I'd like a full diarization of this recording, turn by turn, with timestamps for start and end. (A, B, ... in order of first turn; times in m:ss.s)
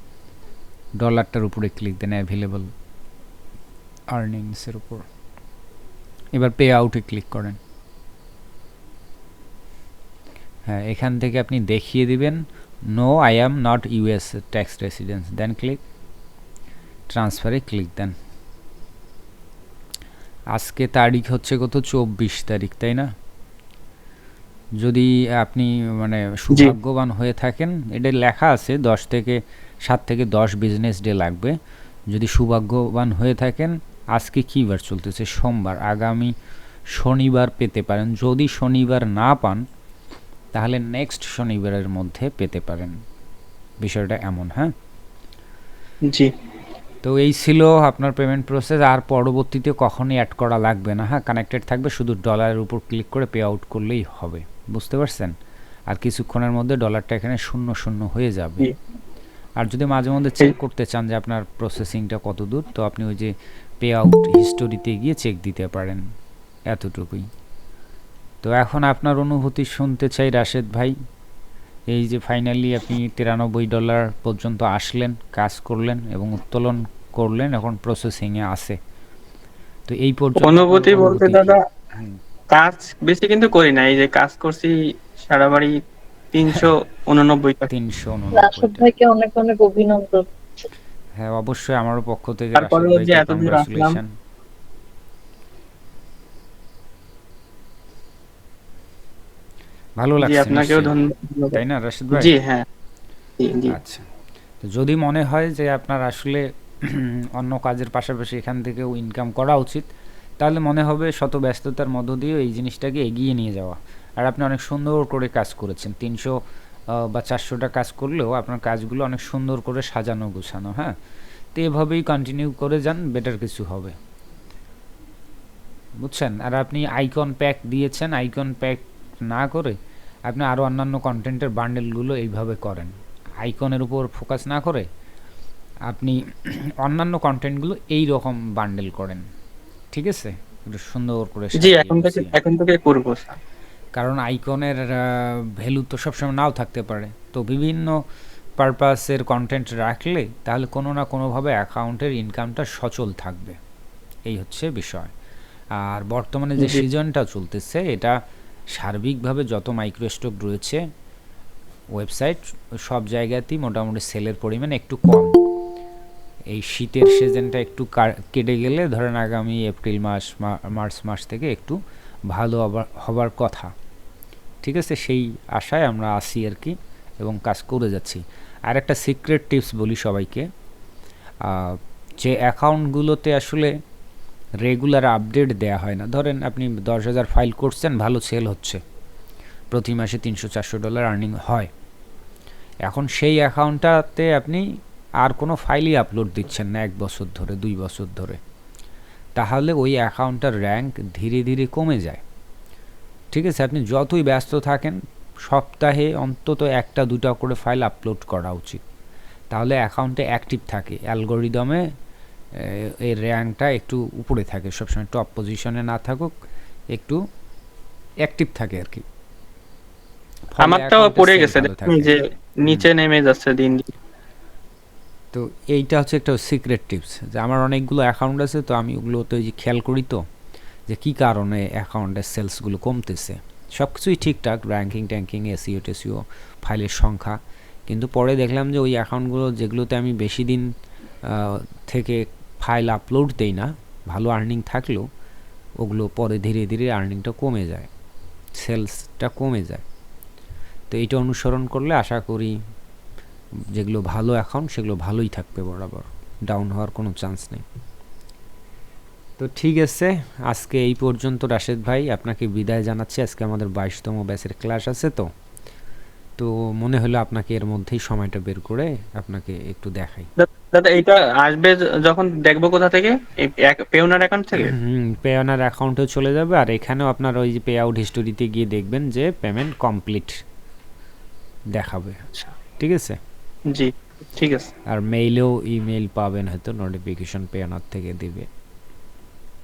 0:01.0-0:02.7 A
0:04.1-0:05.1 A
0:06.3-0:07.6 A
0:10.7-0:15.8 A
0:17.1-0:18.1 A
0:20.5-0:23.1 A
0:24.8-0:31.6 A
0:32.1-0:36.3 A
0:36.9-0:39.6 A
0:40.5-0:43.0 A
0:43.8-0:44.7 A
0:46.0-0:46.3 B
0:47.0-0:55.3 A
0:55.9-0:58.7 A
0:59.6-1:06.0 A
1:06.7-1:07.3 A
1:08.4-1:10.9 A
1:11.9-1:18.8 A
1:19.9-1:22.2 A
1:20.4-1:21.6 B
1:22.5-1:25.7 B
1:26.3-1:27.7 B
1:27.7-1:28.9 A
1:28.3-1:30.2 C
1:31.2-1:34.1 A
1:32.5-1:34.0 B
1:40.0-1:40.9 A
1:40.2-1:41.6 B
1:41.5-1:42.3 A
1:42.1-1:42.6 B
1:43.4-1:43.8 B
1:43.6-1:44.0 A
1:44.6-1:49.9 A
1:50.4-1:56.4 A
1:56.9-2:00.9 A
2:01.5-2:03.9 A
2:06.0-2:14.9 A
2:15.9-2:19.2 A
2:19.9-2:22.3 A
2:21.5-2:23.4 B
2:24.0-2:28.0 A
2:28.6-2:33.6 A
2:34.2-2:35.1 A
2:35.8-2:38.2 A
2:36.6-2:36.8 B
2:38.7-2:40.8 A
2:41.9-2:45.3 A
2:46.5-2:51.8 A
2:52.3-2:53.7 A
2:54.6-3:00.4 A
3:01.4-3:03.7 A
3:04.6-3:08.8 A
3:09.7-3:11.7 A
3:12.8-3:14.6 A
3:15.2-3:18.4 A
3:19.4-3:22.2 A
3:23.3-3:28.8 A
3:29.5-3:31.8 A
3:32.6-3:36.3 A
3:36.9-3:37.2 A
3:38.2-3:39.0 A
3:40.5-3:42.1 A
3:40.6-3:43.9 B
3:45.3-3:50.2 A
3:50.9-4:00.7 A
4:01.2-4:05.1 A
4:05.8-4:07.9 A
4:08.6-4:09.8 A
4:10.9-4:12.6 A
4:13.7-4:17.6 A
4:19.4-4:25.3 A
4:26.4-4:30.3 A
4:30.4-4:34.7 B
4:34.6-4:40.4 A
4:41.7-4:42.2 A
4:42.8-4:43.2 A
4:43.7-4:44.7 B
4:44.9-4:48.5 A